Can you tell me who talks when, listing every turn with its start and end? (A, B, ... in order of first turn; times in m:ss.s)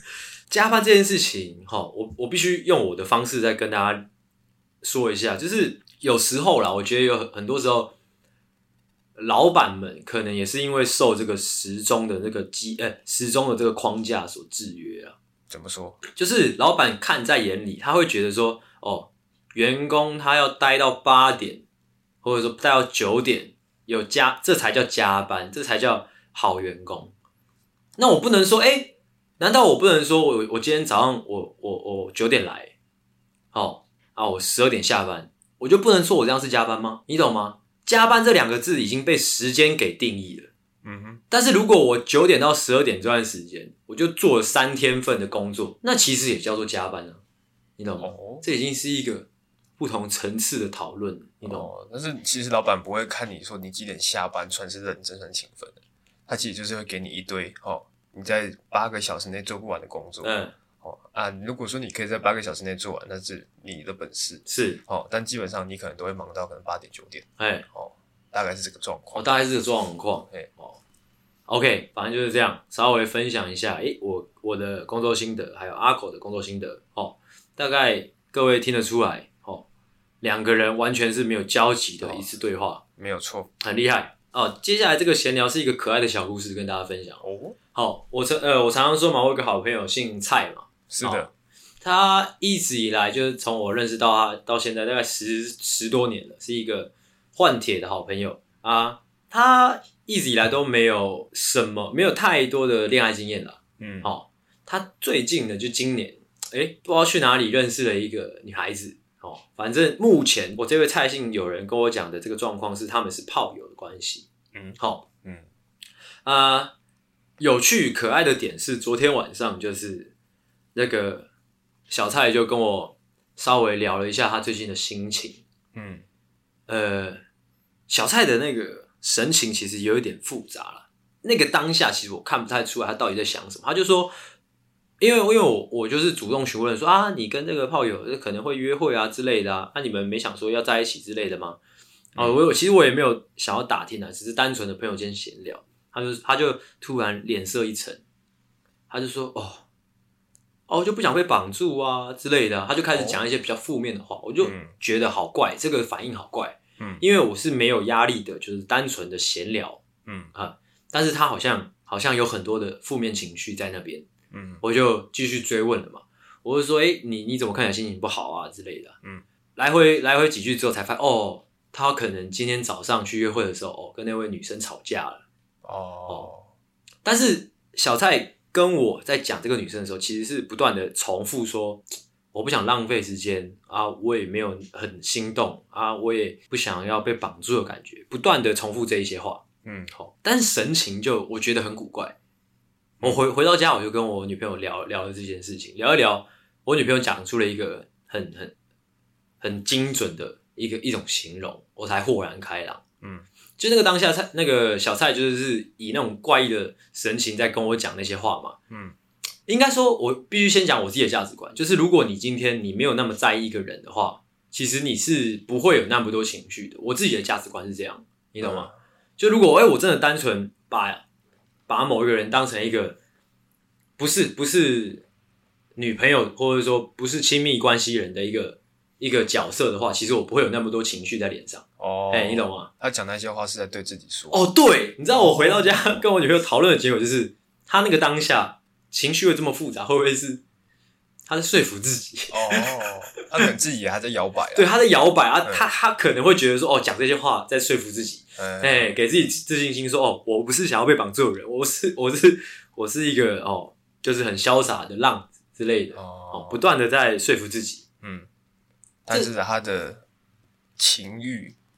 0:00.5-0:04.1 A
0:04.8-0:07.9 A
0:09.2-0:15.2 A
0:15.5-0:16.0 B
0:16.1-0:21.6 A
0:22.2-0:27.1 A
0:28.0-0:32.7 A
0:33.5-0:40.5 A
0:40.8-0:41.2 B
0:41.3-0:47.2 A
0:47.8-0:49.3 A
0:48.0-0:48.4 B
0:49.8-0:51.7 A
0:51.4-1:09.3 B
1:00.2-1:00.5 A
1:04.4-1:04.8 A
1:07.4-1:07.6 A
1:09.1-1:10.8 A
1:11.5-1:19.7 A
1:20.2-1:22.8 A
1:22.0-1:22.3 B
1:23.0-1:23.5 B
1:23.6-1:27.2 A
1:27.2-1:27.6 B
1:27.7-1:31.3 A
1:30.9-1:31.3 B
1:31.8-1:55.0 A
1:43.8-1:44.1 B
1:54.5-1:55.4 B
1:56.2-1:56.7 A
1:57.4-2:00.1 A
2:00.7-2:01.3 A
2:01.9-2:05.4 A
2:05.7-2:06.0 B
2:06.7-2:07.2 A
2:07.9-2:14.1 A
2:15.0-2:21.6 A
2:22.1-2:28.0 A
2:28.9-2:29.6 A
2:30.7-2:39.8 A
2:32.9-2:33.2 B
2:34.4-2:34.7 B
2:36.8-2:37.0 B
2:40.0-2:40.3 B
2:40.3-2:44.0 A
2:44.3-2:44.6 B
2:44.6-2:49.0 A
2:49.6-2:55.2 A
2:55.6-2:56.5 B
2:57.0-3:12.1 A
3:09.6-3:09.9 B
3:13.0-3:18.5 A
3:19.4-3:22.8 A
3:23.0-3:23.2 B
3:23.6-3:28.6 A
3:28.7-3:28.9 B
3:29.5-3:41.0 A
3:38.4-3:38.7 B
3:41.7-3:43.0 A
3:44.0-3:45.0 A
3:45.8-3:52.7 A
3:51.8-3:54.4 B
3:54.3-4:00.4 A
3:55.1-3:56.0 B
4:01.3-4:03.2 A
4:02.3-4:04.7 B
4:04.5-4:17.8 A
4:08.4-4:08.9 B
4:15.9-4:16.6 B
4:18.0-4:18.3 B
4:19.0-4:20.0 B
4:20.8-4:21.6 B